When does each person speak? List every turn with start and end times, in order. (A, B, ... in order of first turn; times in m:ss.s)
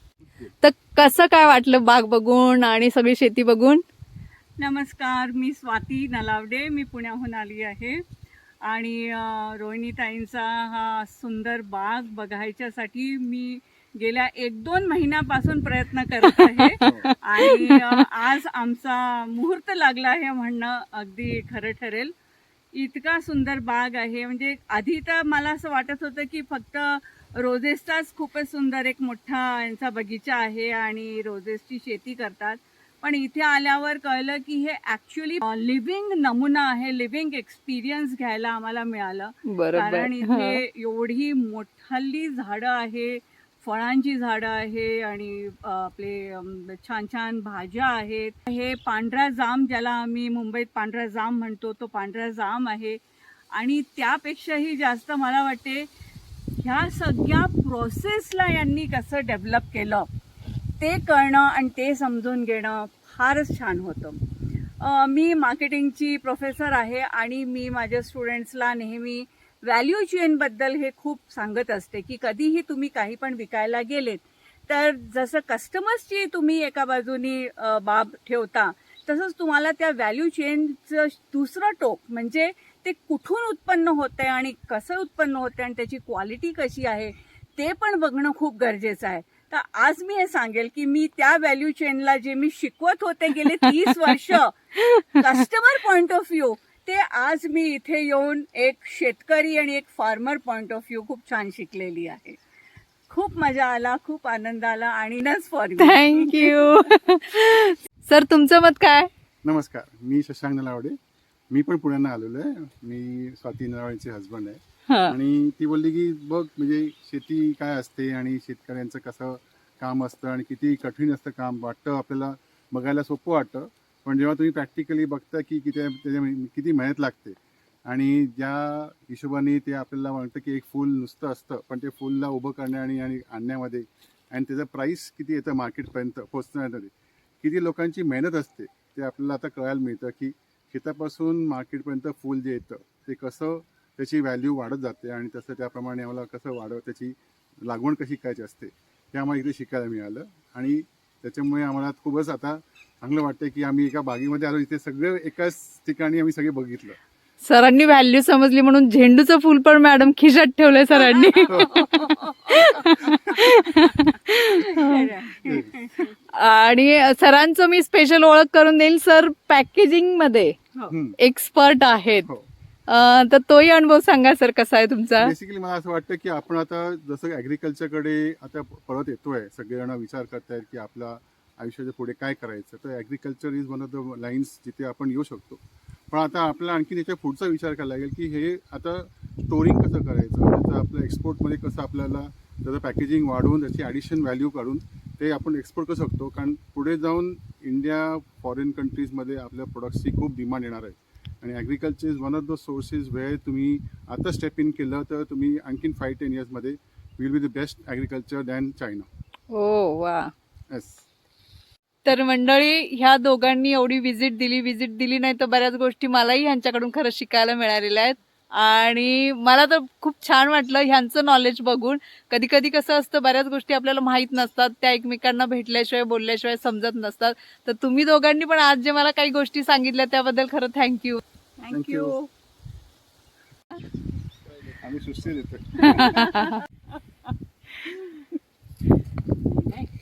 0:00.4-0:03.8 A
0:04.6-0:08.0 B
0:08.6-0:22.1 B
0:16.3-0:18.1 A
0:16.8-0:17.1 C
0:22.7-0:53.0 B
0:39.5-0:40.6 A
0:53.5-0:55.9 B
0:56.6-1:00.1 B
1:00.8-1:04.2 B
1:04.8-1:34.6 B
1:33.4-1:34.2 A
1:34.8-1:35.4 A
1:35.2-1:42.4 B
1:43.1-1:46.9 B
1:45.8-1:49.1 A
1:49.4-1:51.0 C
1:51.5-2:07.4 C
1:54.9-1:55.2 A
2:07.9-2:37.0 C
2:37.5-2:45.1 A
2:40.9-2:42.8 B
2:41.5-2:42.0 C
2:44.7-2:46.1 B
2:46.0-2:50.6 A
2:50.9-2:51.2 C
2:51.2-2:52.3 A
2:52.9-2:55.3 A
2:55.2-3:29.1 C
3:29.5-3:30.3 A
3:30.7-3:31.0 C
3:32.0-3:51.2 A
3:51.6-3:52.3 B
3:51.7-3:52.2 C
3:54.8-3:56.1 C
3:55.8-3:56.6 A
3:55.8-3:56.6 B
3:57.9-3:58.2 B
3:59.4-3:59.9 B